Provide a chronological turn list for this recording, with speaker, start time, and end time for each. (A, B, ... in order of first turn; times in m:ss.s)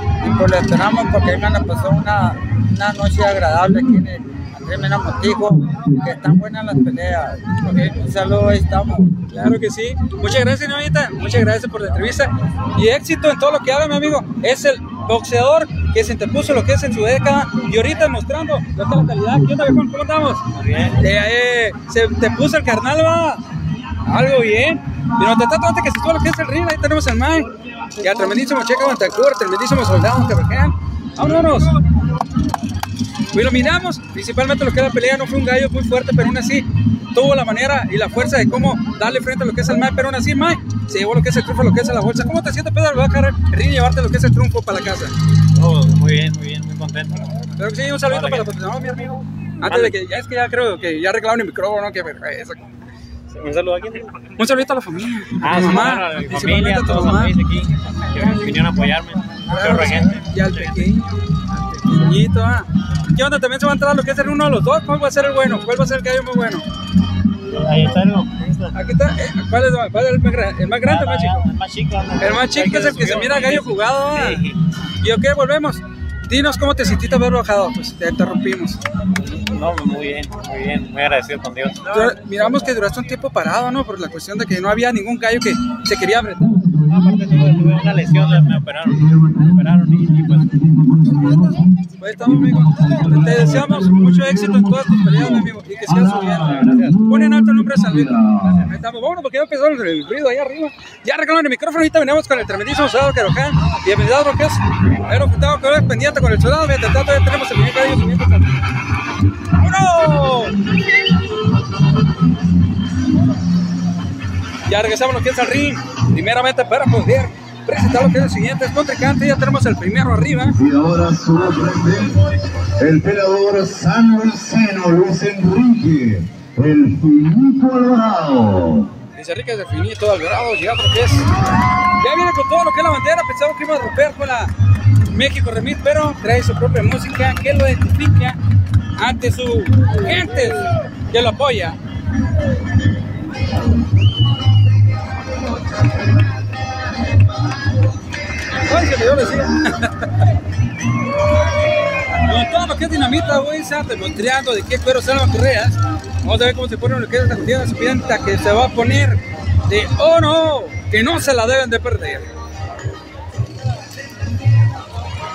0:00.2-0:09.1 A
0:05.7-0:06.4 B
0:07.6-0:07.9 C
0:09.3-0:20.4 C
0:20.6-0:21.0 D
0:21.0-0:23.4 C
0:24.0-0:31.7 C
0:33.3-0:45.1 C
0:45.6-0:47.4 D
0:47.6-0:52.6 C
0:48.0-0:48.5 D
0:49.6-0:50.0 D
0:53.3-0:54.2 D
0:54.4-0:57.4 C
0:55.4-1:00.9 D
0:59.5-1:01.1 C
1:01.8-1:06.6 C
1:07.5-1:08.7 D
1:08.7-1:11.4 C
1:10.8-1:14.6 D
1:12.2-1:14.4 C
1:15.0-1:18.8 C
1:19.2-1:22.1 D
1:21.9-1:26.5 C
1:26.4-1:38.7 B
1:26.9-1:30.6 D
1:32.0-1:38.1 C
1:36.6-1:37.0 D
1:38.7-1:48.6 C
1:49.6-1:50.5 C
1:54.7-2:00.6 C
2:00.5-2:08.9 B
2:09.2-2:11.3 C
2:12.0-2:14.5 C
2:15.1-2:18.4 C
2:19.0-2:21.8 C
2:28.7-2:30.0 C
2:32.2-2:42.3 C